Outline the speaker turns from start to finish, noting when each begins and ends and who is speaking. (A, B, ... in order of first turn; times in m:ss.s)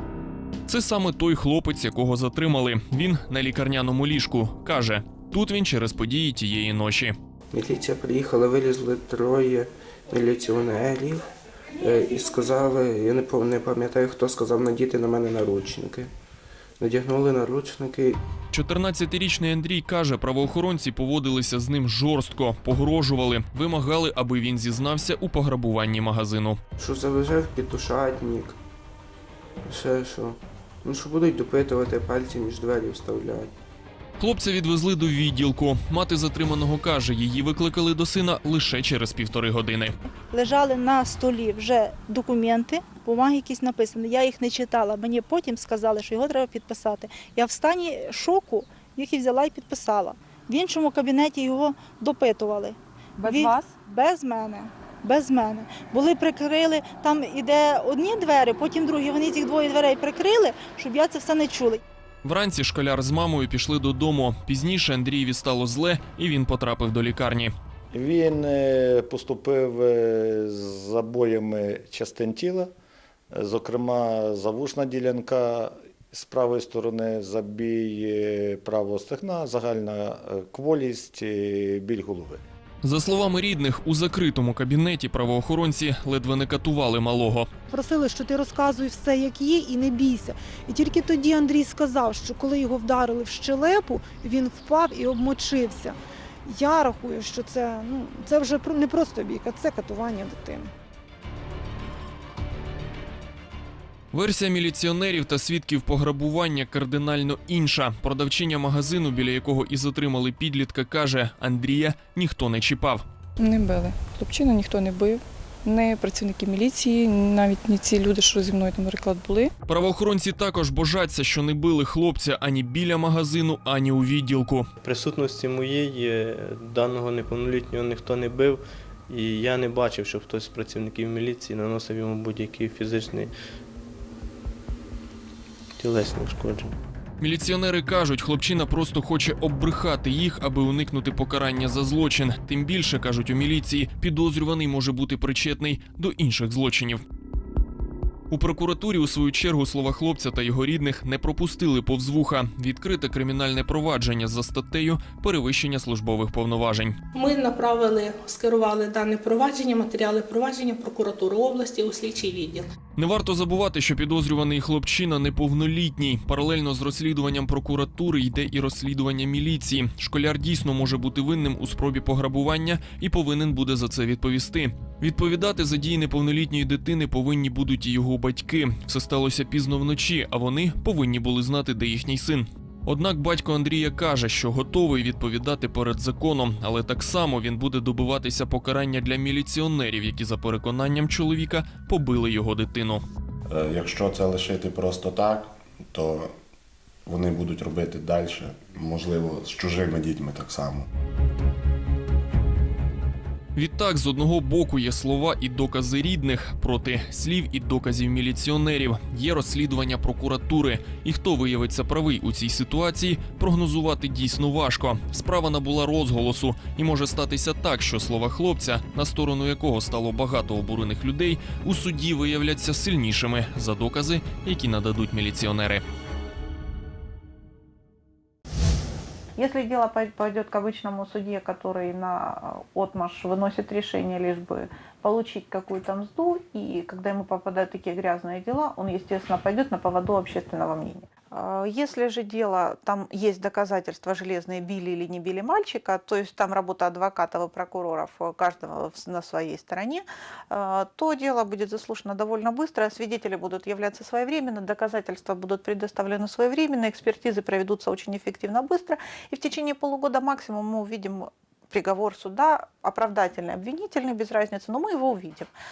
0:00.7-0:07.2 A
0:07.5-0:16.1 B
0:16.8-0:18.2 B
0:18.5-0:26.6 A
0:26.8-0:28.6 B
0:29.6-0:33.5 B
0:34.2-0:40.0 A
0:40.3-1:01.8 C
0:53.2-0:53.5 D
1:02.2-1:07.5 A
1:07.9-1:12.7 E
1:13.4-1:22.4 E
1:22.8-1:27.5 A
1:27.7-1:40.7 F
1:44.1-1:53.0 A
1:53.4-1:59.5 D
1:59.7-2:04.7 A
2:04.8-2:13.3 G
2:15.8-2:16.8 G
2:17.2-2:27.0 A
2:28.3-2:37.0 A
2:37.1-2:42.7 H
2:43.0-3:13.0 A
3:13.5-3:16.3 I
3:17.1-3:20.9 I
3:23.6-3:45.8 A
3:49.4-4:25.5 J